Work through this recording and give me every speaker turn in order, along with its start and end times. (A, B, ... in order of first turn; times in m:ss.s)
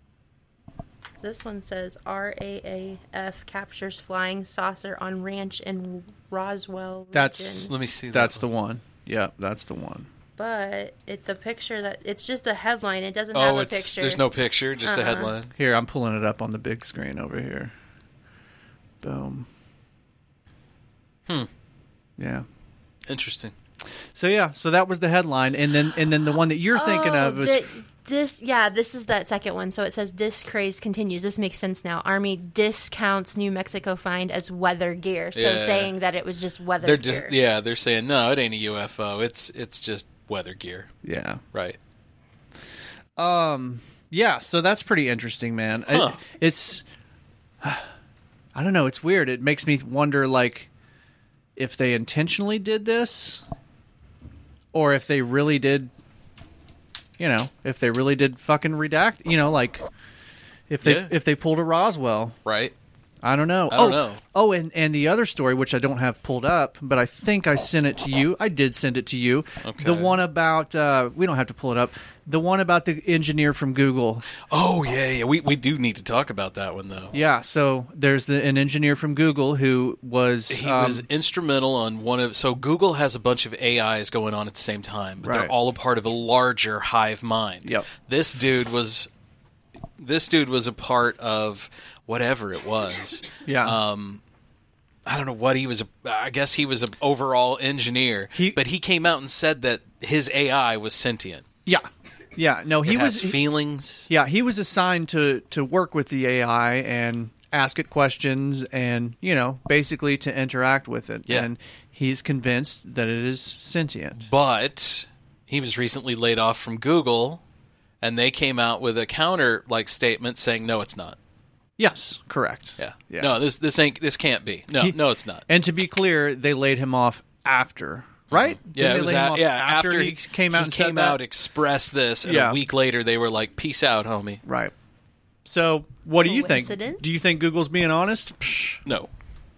0:01.2-0:07.7 A
0:07.1-0:10.1 B
0:07.7-0:08.4 C
0:10.4-0:14.2 A
0:13.3-0:15.5 C
0:14.8-0:15.3 A
0:15.6-0:17.7 B
0:19.0-0:19.5 B
0:22.2-0:22.5 B
0:23.1-0:23.5 C
0:24.2-0:27.7 B
0:26.7-0:37.4 A
0:35.3-0:35.9 C
0:36.8-0:40.9 C
0:41.0-0:41.4 B
0:41.5-0:41.8 C
0:43.2-0:46.8 B
0:45.9-0:46.2 C
0:47.6-0:47.9 B
0:48.6-0:50.7 B
0:51.6-0:53.4 B
0:54.7-0:55.9 B
0:57.2-0:59.8 B
1:00.7-1:02.4 B
1:00.8-1:01.1 C
1:02.5-1:02.7 C
1:03.2-1:14.3 B
1:03.7-1:04.2 C
1:09.6-1:10.2 C
1:14.5-1:17.1 C
1:17.1-1:21.0 B
1:20.5-1:29.1 C
1:25.2-1:25.5 B
1:30.0-1:34.2 C
1:33.5-1:33.8 B
1:35.1-1:41.4 C
1:41.7-1:43.4 B
1:42.9-1:44.1 C
1:44.1-1:54.3 B
1:54.2-1:57.4 C
1:58.0-2:01.2 C
2:01.8-2:03.4 B
2:02.8-2:05.4 C
2:04.8-2:11.2 B
2:08.3-2:14.4 C
2:12.2-2:12.6 B
2:14.4-2:14.7 B
2:15.4-2:18.8 B
2:16.2-2:17.0 A